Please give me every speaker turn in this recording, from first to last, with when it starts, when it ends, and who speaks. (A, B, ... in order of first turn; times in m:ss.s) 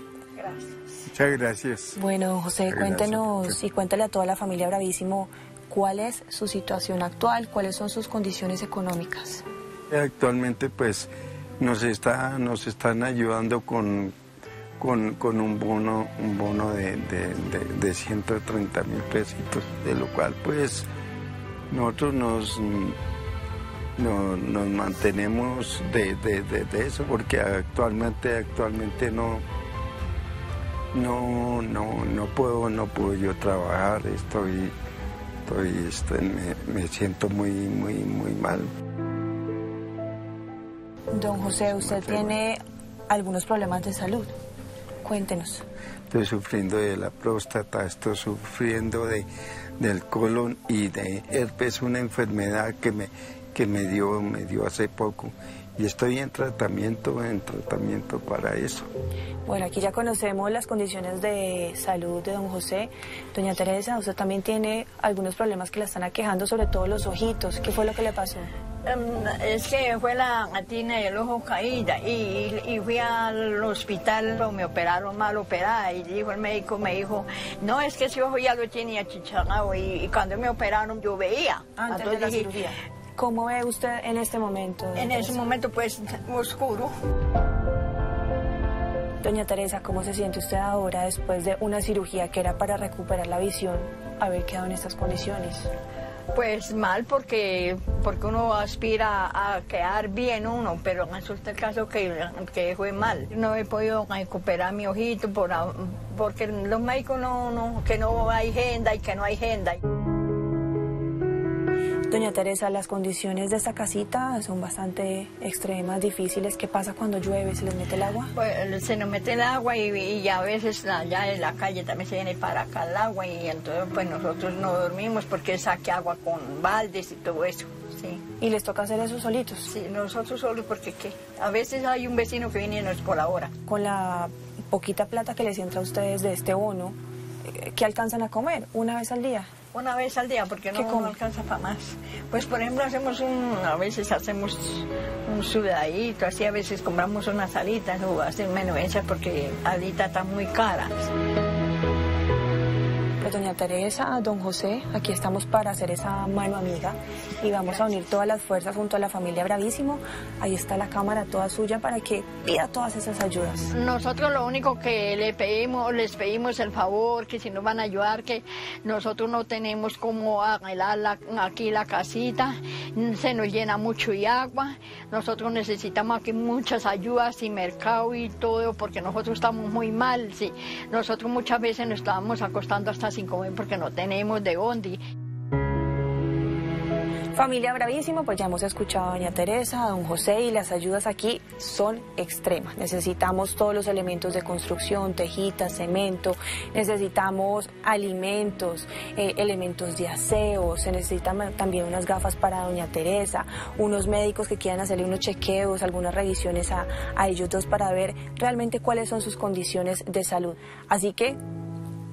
0:00.4-0:00.9 A
0:01.1-0:02.0 B
0:02.0-0:09.4 C
0:02.6-0:03.6 B
0:09.9-0:14.1 B
0:14.8-0:20.9 B
0:21.7-0:23.0 B
0:24.0-0:29.4 B
0:30.9-0:34.7 B
0:35.4-0:38.7 B
0:41.1-0:44.3 C
0:41.7-0:42.4 B
0:45.0-0:45.6 C
0:46.1-0:49.3 B
0:49.8-0:58.9 B
0:59.4-1:08.5 C
1:08.9-1:22.5 A
1:21.8-1:25.4 C
1:24.9-1:26.9 A
1:29.2-1:35.7 C
1:36.3-1:49.8 A
1:52.1-1:58.3 C
1:58.3-2:08.2 A
2:08.4-2:09.7 C
2:09.7-2:13.5 A
2:13.7-2:17.0 C
2:17.5-2:19.5 C
2:19.7-2:31.1 A
2:20.7-2:21.2 C
2:33.2-2:43.7 C
2:43.7-3:05.0 A
3:07.3-3:31.4 C